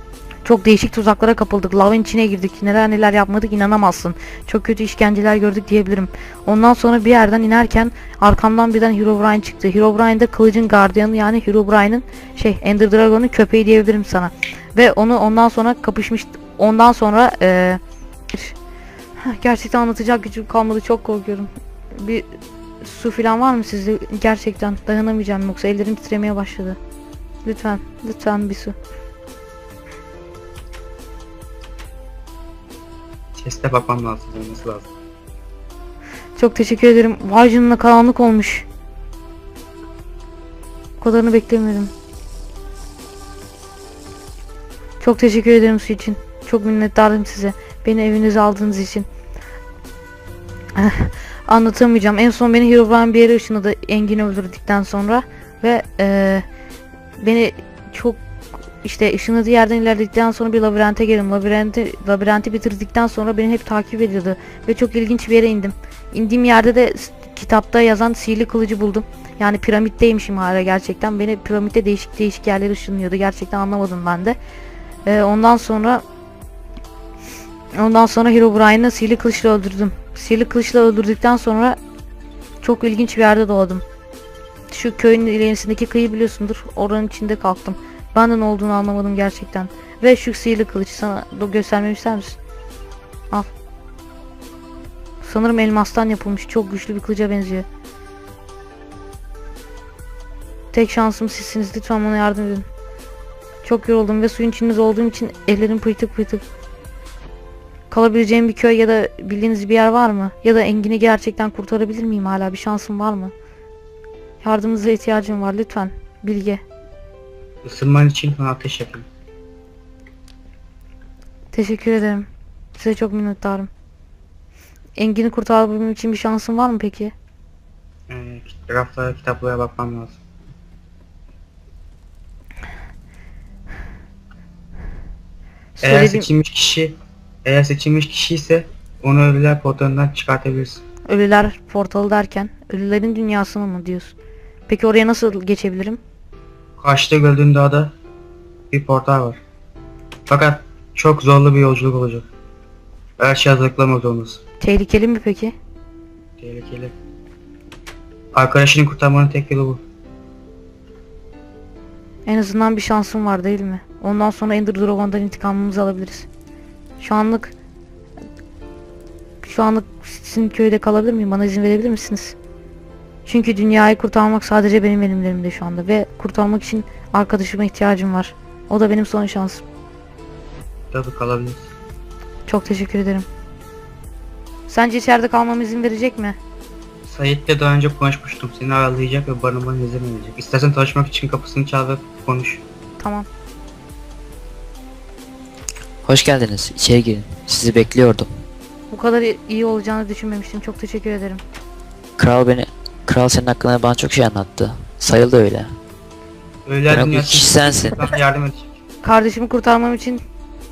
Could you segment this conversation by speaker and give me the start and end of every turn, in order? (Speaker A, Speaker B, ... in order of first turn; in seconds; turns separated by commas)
Speaker A: 0.5-17.8, Speaker A: 19.2-26.8, Speaker A: 27.4-28.8, Speaker B: 33.4-34.9, Speaker A: 36.4-38.7, Speaker A: 41.0-41.9, Speaker A: 45.0-49.1, Speaker A: 50.8-56.5, Speaker A: 57.2-58.2, Speaker A: 58.8-74.4, Speaker A: 75.1-76.0, Speaker A: 77.8-81.8, Speaker A: 82.6-83.8, Speaker A: 84.7-92.4, Speaker A: 95.2-97.7, Speaker A: 100.7-102.7, Speaker A: 103.6-106.5, Speaker A: 107.9-113.3, Speaker A: 114.4-116.6, Speaker B: 117.6-119.1, Speaker A: 121.5-123.7, Speaker A: 125.0-127.1, Speaker B: 128.1-130.2, Speaker A: 135.8-136.3, Speaker B: 135.8-140.8, Speaker A: 141.1-144.2, Speaker A: 144.7-146.0, Speaker B: 146.8-147.9, Speaker B: 148.7-149.4, Speaker B: 150.3-152.3, Speaker B: 153.2-154.4, Speaker A: 154.6-155.5, Speaker B: 156.4-156.9, Speaker B: 158.3-159.8, Speaker A: 162.3-166.3, Speaker A: 167.0-167.6, Speaker A: 169.4-172.4, Speaker A: 173.2-179.6, Speaker B: 180.9-181.7, Speaker A: 182.5-183.3, Speaker A: 184.7-186.4, Speaker B: 187.1-192.6, Speaker A: 193.0-193.3, Speaker C: 196.0-198.3, Speaker A: 198.9-201.4, Speaker C: 202.2-205.8, Speaker B: 206.7-208.8, Speaker C: 206.9-208.1, Speaker A: 209.0-210.2